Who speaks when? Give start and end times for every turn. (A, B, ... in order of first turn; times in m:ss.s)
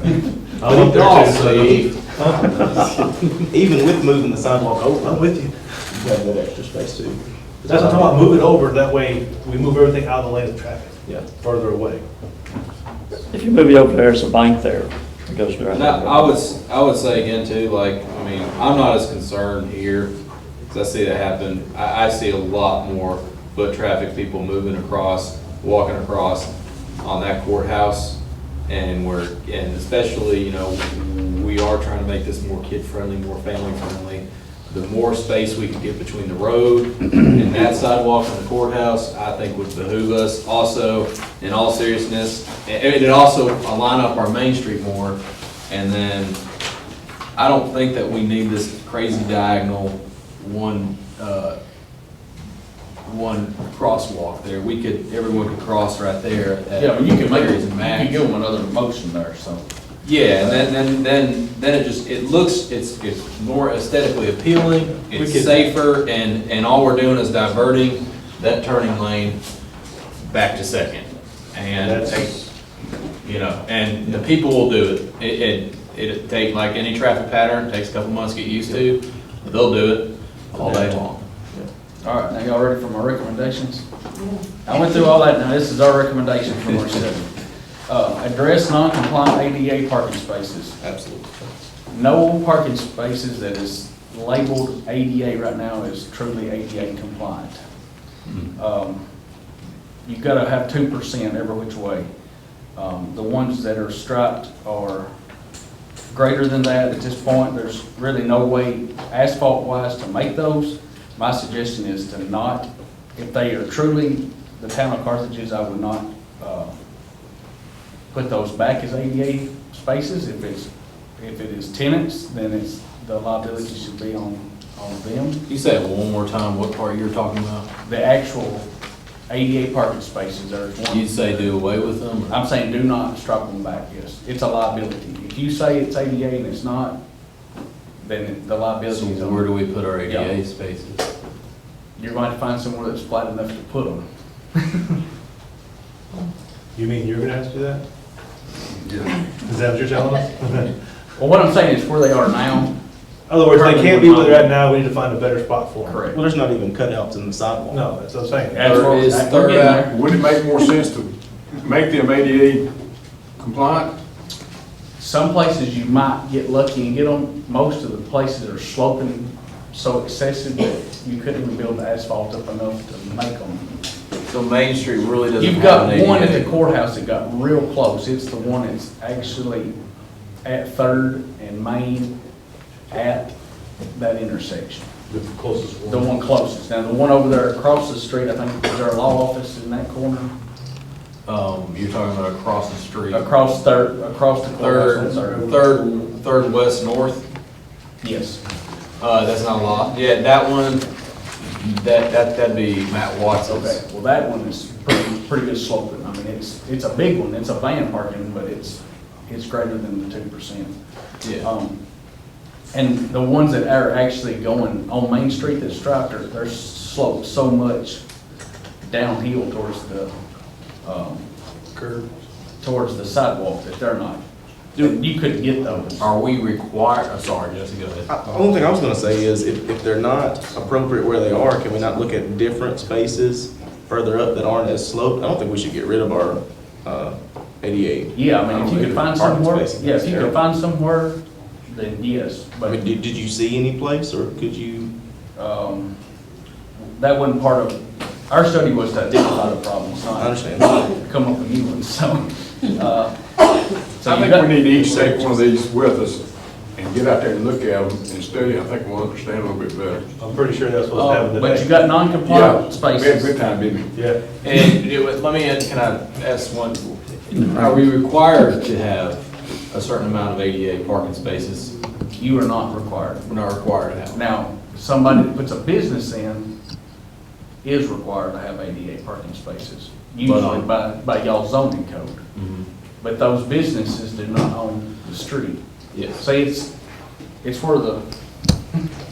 0:00.6-0:02.0 A
0:00.6-0:02.8 B
0:02.5-0:02.8 C
0:03.4-0:05.3 C
0:05.0-0:05.6 B
0:05.9-0:08.3 C
0:07.6-0:12.0 B
0:13.3-0:16.2 D
0:15.7-0:20.1 A
0:20.7-0:26.5 A
0:27.0-0:45.2 A
0:45.7-0:46.4 A
0:47.4-0:51.6 A
0:53.0-0:58.2 A
0:56.7-0:59.6 E
1:00.0-1:09.4 A
1:00.4-1:00.7 E
1:05.1-1:05.7 B
1:10.2-1:12.3 A
1:11.8-1:12.4 B
1:13.2-1:21.2 A
1:22.0-1:23.8 E
1:24.6-1:27.3 E
1:27.9-1:30.8 E
1:30.8-1:31.5 C
1:31.9-1:37.6 E
1:38.6-1:39.0 E
1:40.0-1:42.1 E
1:42.7-1:45.1 E
1:46.1-1:56.7 E
1:58.1-2:05.4 E
2:05.5-2:07.6 A
2:07.8-2:08.7 E
2:09.3-2:11.5 E
2:10.9-2:12.3 A
2:12.3-2:17.0 E
2:18.0-2:19.5 E
2:18.9-2:21.0 A
2:20.0-2:20.3 E
2:22.0-2:24.0 E
2:24.6-2:25.0 E
2:26.7-2:27.8 B
2:29.4-2:30.7 B
2:31.2-2:32.8 E
2:33.3-2:36.0 B
2:33.4-2:34.6 E
2:35.8-2:36.2 E
2:36.1-2:37.8 C
2:37.7-2:38.8 B
2:38.5-2:39.9 E
2:38.6-2:39.9 A
2:39.7-2:41.1 F
2:41.6-2:42.6 F
2:43.4-2:43.9 F
2:45.0-2:53.7 E
2:54.3-2:56.6 A
2:55.4-2:59.7 E
3:00.4-3:02.1 E
3:02.9-3:03.3 E
3:03.9-3:04.9 E
3:05.1-3:06.0 F
3:05.8-3:10.3 E
3:11.2-3:13.2 A
3:13.1-3:15.6 E
3:14.6-3:17.2 A
3:18.0-3:18.4 E
3:19.0-3:20.8 A
3:21.6-3:23.8 A
3:23.4-3:30.7 E
3:31.4-3:31.8 E
3:32.7-3:38.0 E
3:38.8-3:40.1 E
3:40.8-3:41.2 E
3:42.6-3:44.2 E
3:44.7-3:46.1 E
3:46.0-3:48.1 A
3:48.1-4:00.4 C
3:58.1-4:02.8 E
4:02.6-4:04.9 C
4:05.4-4:05.9 E
4:07.0-4:13.2 E
4:10.2-4:10.8 C
4:14.0-4:15.4 E
4:14.0-4:16.2 F
4:16.7-4:20.1 F
4:20.2-4:21.8 B
4:20.9-4:23.4 E
4:22.2-4:23.9 F
4:23.9-4:24.2 B
4:24.4-4:31.7 A
4:32.2-4:33.3 E
4:33.2-4:34.2 A
4:34.1-4:36.5 E
4:37.6-4:42.2 E
4:40.2-4:40.6 A
4:42.3-4:42.7 A
4:43.0-4:46.7 E
4:45.9-4:46.2 A
4:47.4-4:48.0 E